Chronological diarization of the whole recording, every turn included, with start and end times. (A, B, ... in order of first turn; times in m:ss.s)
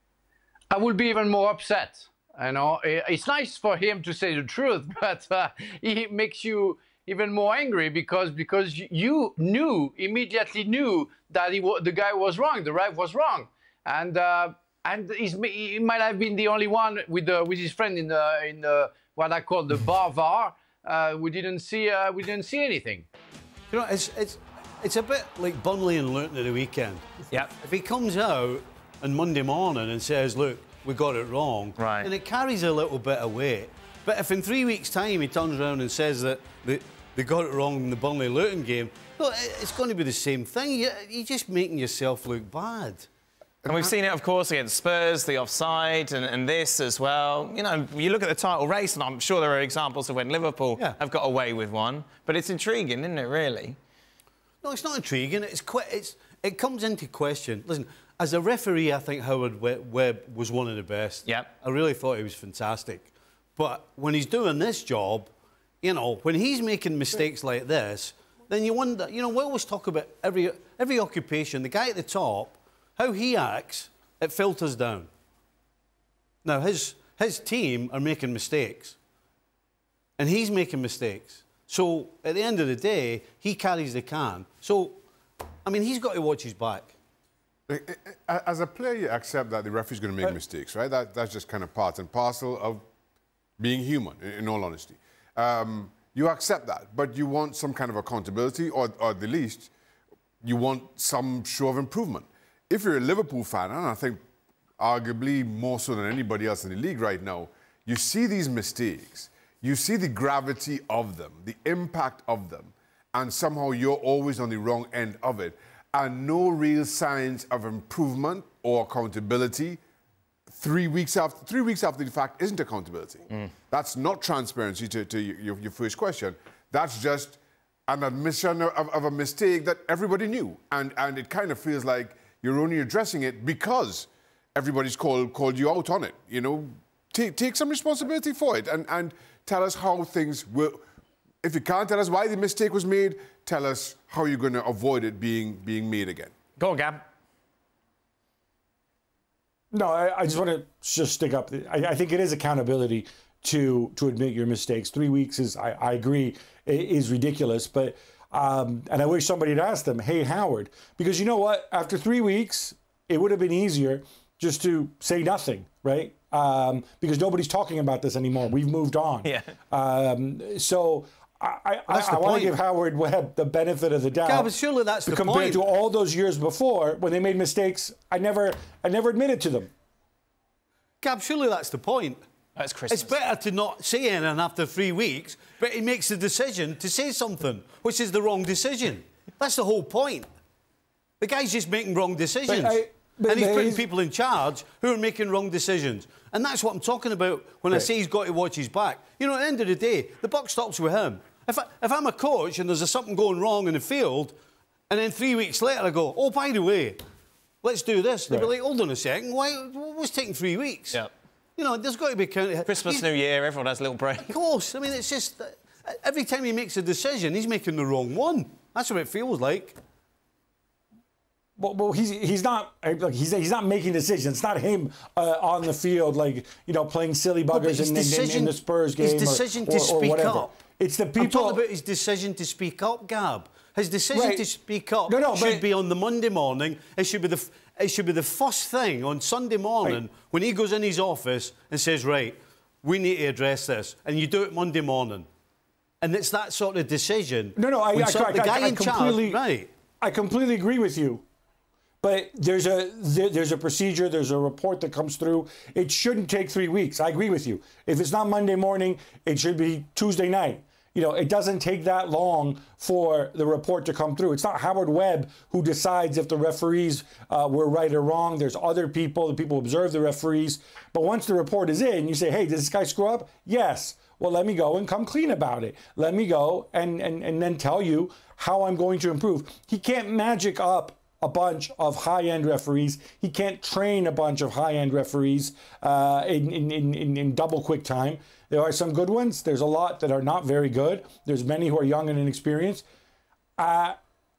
0:00.7-0:23.1 A
0:23.7-0:43.1 B
0:31.8-0:32.1 C
0:43.6-0:53.8 C
0:54.6-1:05.3 B
1:01.2-1:01.5 C
1:05.8-1:15.1 B
1:16.4-1:19.0 B
1:20.2-1:25.0 B
1:25.6-1:26.9 B
1:27.7-1:32.8 D
1:33.6-1:39.7 D
1:40.4-1:44.2 D
1:44.8-1:59.8 D
2:00.5-2:20.8 D
2:21.4-2:26.3 D
2:26.6-2:27.0 C
2:29.7-2:54.5 E
2:49.2-2:49.5 C
2:51.9-2:52.6 B
2:54.2-2:55.6 B
2:55.1-2:59.7 E
3:01.0-3:02.2 B
3:02.6-3:03.1 C
3:02.9-3:10.3 B
3:11.2-3:24.3 B
3:12.4-3:13.8 E
3:24.9-3:27.0 B
3:27.6-3:31.0 B
3:31.6-3:33.1 B
3:32.6-3:34.3 C
3:34.2-3:39.8 B
3:41.6-3:51.6 E
3:47.5-3:50.5 B
3:51.2-4:05.3 B
3:54.1-3:54.5 E
3:55.1-3:55.6 E
4:06.0-4:09.7 B
4:07.6-4:09.4 E
4:10.0-4:11.2 E
4:12.0-4:52.8 E
4:53.6-4:54.0 E